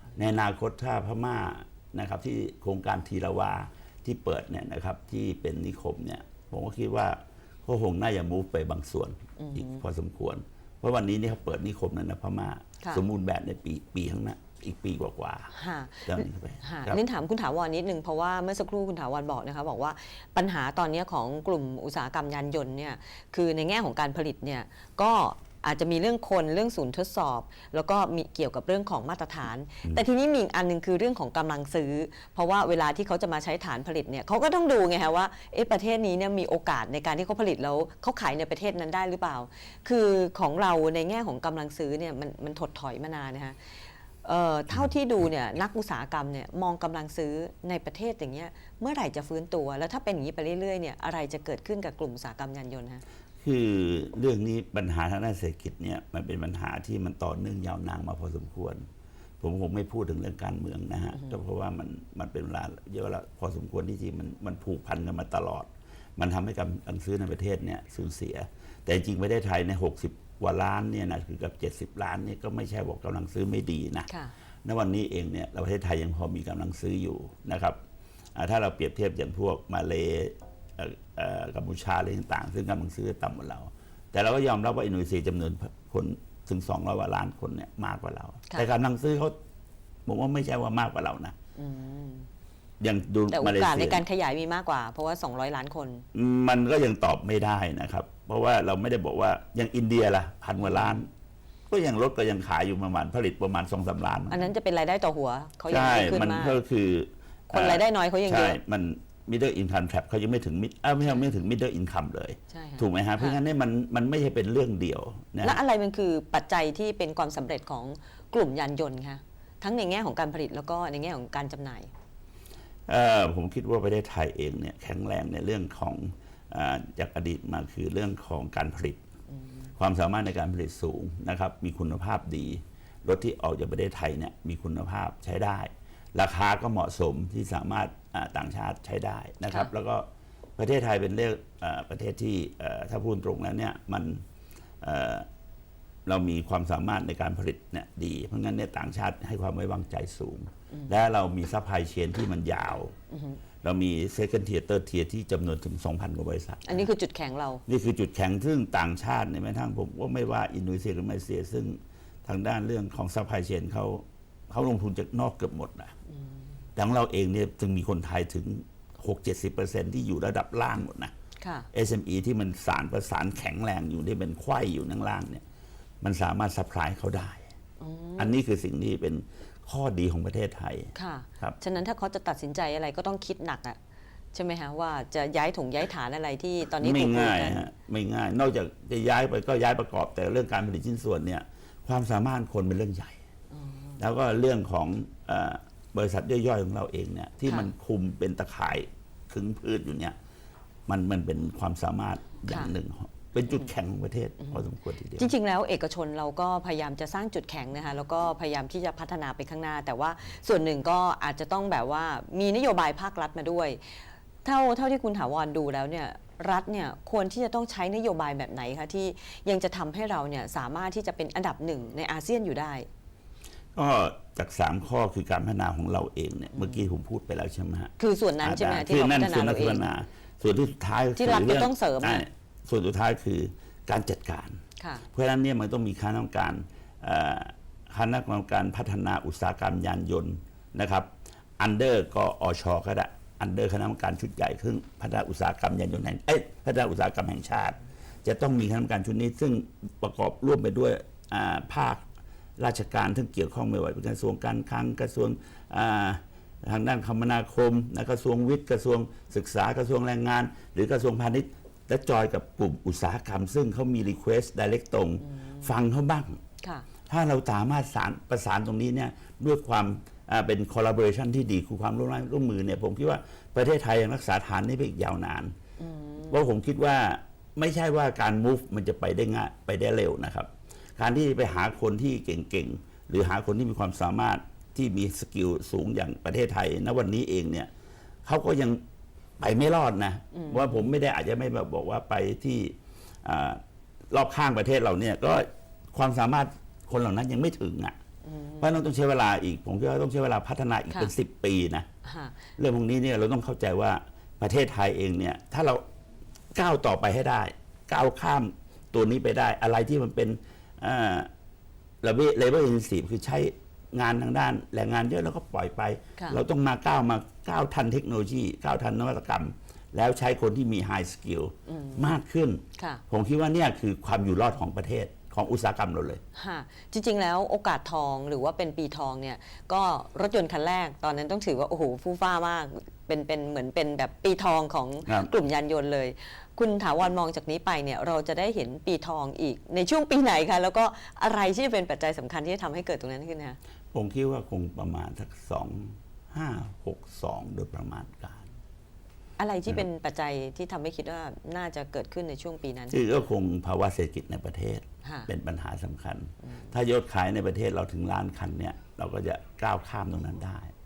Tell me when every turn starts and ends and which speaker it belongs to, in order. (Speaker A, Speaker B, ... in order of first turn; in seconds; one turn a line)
Speaker A: 0.2-15.5
Speaker B: 9.4-9.8
Speaker B: 15.5-43.6
Speaker A: 16.1-17.0
Speaker B: 44.2-53.0
Speaker A: 53.4-58.9
Speaker A: 59.4-74.1
Speaker A: 74.6-77.8
Speaker A: 78.3-89.3
Speaker A: 90.0-91.3
Speaker B: 91.6-92.3
Speaker A: 92.8-94.0
Speaker B: 93.3-96.0
Speaker A: 96.1-101.1
Speaker B: 100.6-101.0
Speaker A: 101.7-104.5
Speaker B: 104.3-106.6
Speaker A: 105.7-115.6
Speaker B: 107.5-108.6
Speaker B: 112.5-113.4
Speaker B: 115.4-121.9
Speaker A: 122.9-129.0
Speaker B: 129.3-129.7
Speaker A: 129.8-140.1
Speaker A: 140.6-144.2
Speaker A: 144.8-145.3
Speaker A: 146.1-152.9
Speaker B: 150.7-151.0
Speaker B: 153.1-153.4
Speaker A: 153.6-156.9
Speaker B: 156.7-157.6
Speaker A: 157.7-165.9
Speaker B: 166.1-166.4
Speaker A: 166.8-171.1
Speaker B: 171.4-171.7
Speaker A: 171.7-175.4
Speaker A: 176.0-177.4
Speaker B: 177.8-178.4
Speaker A: 178.2-181.6
Speaker B: 180.9-183.8
Speaker B: 184.3-187.7
Speaker A: 186.8-193.2
Speaker B: 193.5-194.0
Speaker A: 194.0-200.2
Speaker A: 200.9-205.3
Speaker B: 202.5-202.7
Speaker B: 205.2-222.9
Speaker A: 223.7-234.6
Speaker B: 226.5-226.9
Speaker B: 228.0-229.8
Speaker B: 231.2-232.2
Speaker B: 234.8-235.0
Speaker A: 235.1-252.0
Speaker A: 252.6-266.4
Speaker B: 265.3-265.7
Speaker A: 267.1-275.5
Speaker B: 275.8-276.4
Speaker A: 276.3-287.7
Speaker A: 288.2-288.8
Speaker A: 289.4-293.6
Speaker B: 290.3-290.8
Speaker A: 294.1-298.0
Speaker B: 298.2-298.7
Speaker A: 298.6-301.9
Speaker B: 302.0-302.4
Speaker A: 302.6-305.8
Speaker A: 306.5-311.3
Speaker A: 312.0-326.2
Speaker B: 321.7-322.1
Speaker B: 326.4-343.6
Speaker A: 335.1-335.3
Speaker A: 343.9-348.5
Speaker B: 349.4-353.0
Speaker A: 352.9-360.7
Speaker B: 355.0-355.3
Speaker B: 356.5-356.7